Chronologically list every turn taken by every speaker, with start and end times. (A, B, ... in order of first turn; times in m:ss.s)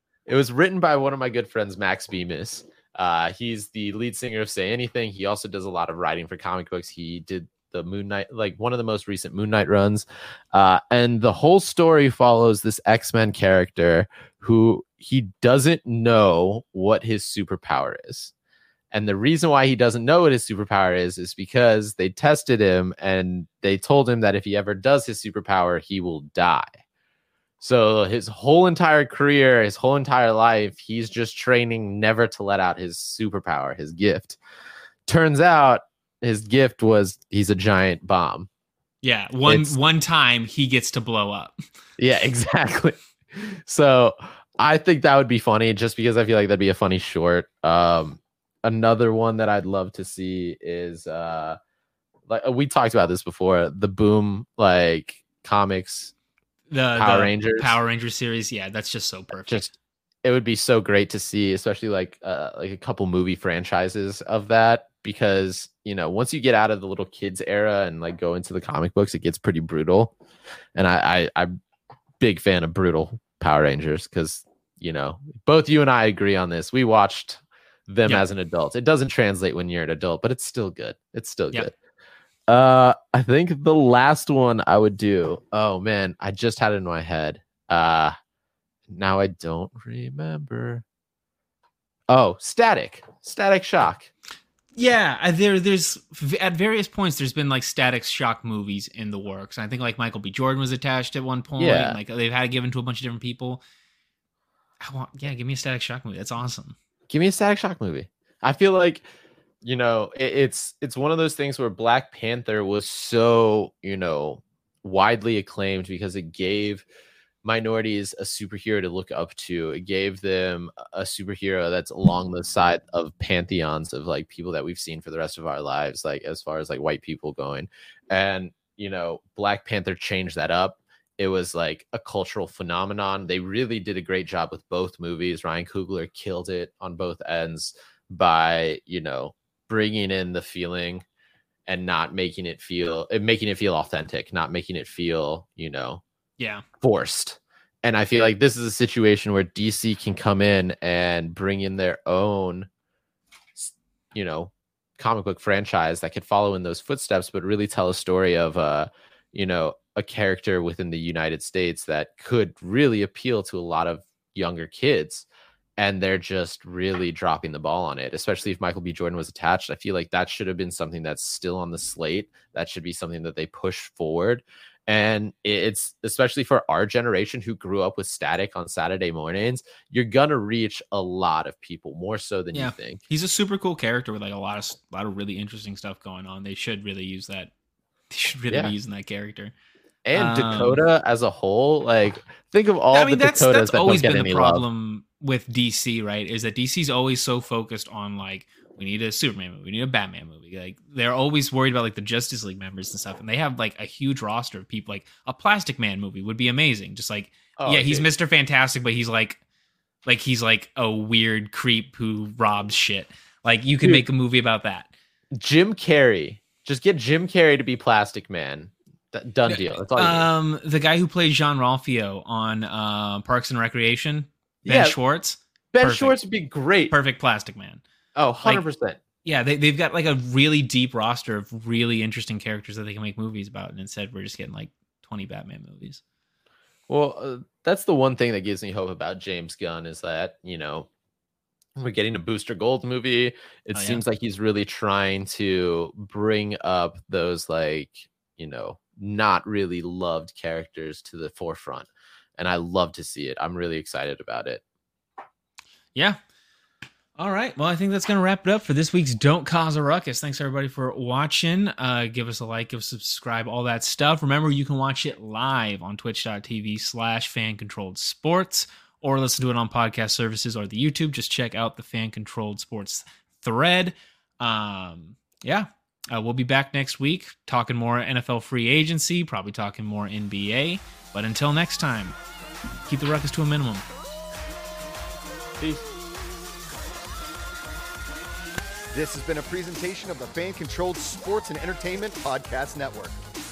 0:00.3-0:18.3 A
0:18.9-0:26.8 A
0:27.6-0:34.4 A
0:35.1-0:38.5 A
0:39.0-0:41.6 B
0:39.4-0:39.8 A
0:42.0-0:51.6 A
0:52.3-0:56.1 A
0:56.7-0:59.7 B
0:57.0-0:57.8 A
0:59.4-0:59.7 A
1:00.2-1:10.1 A
1:10.8-1:11.5 A
1:12.2-1:21.7 A
1:22.5-1:28.1 A
1:28.9-1:30.8 A
1:32.1-1:34.1 A
1:34.8-1:43.6 B
1:41.6-1:42.0 A
1:44.8-1:46.8 B
1:47.1-1:49.1 A
1:49.6-1:56.8 A
1:57.4-2:21.0 A
2:21.7-2:26.0 A
2:26.4-2:26.6 B
2:26.8-2:32.7 A
2:33.6-2:45.3 A
2:45.8-3:03.0 A
3:02.5-3:07.5 B
3:08.1-3:09.5 B
3:08.5-3:08.7 A
3:10.1-3:14.6 A
3:10.1-3:10.8 B
3:12.9-3:29.4 B
3:27.6-3:28.1 A
3:30.1-3:34.9 B
3:35.4-3:40.3 A
3:39.5-3:46.2 B
3:44.6-3:45.0 A
3:45.7-3:46.9 A
3:46.9-3:47.8 B
3:48.1-3:49.0 A
3:49.2-3:56.0 B
3:56.9-4:00.9 A
4:01.8-4:14.6 A
4:03.7-4:04.0 B
4:17.2-4:42.2 B
4:42.9-4:43.8 B
4:48.9-4:53.2 C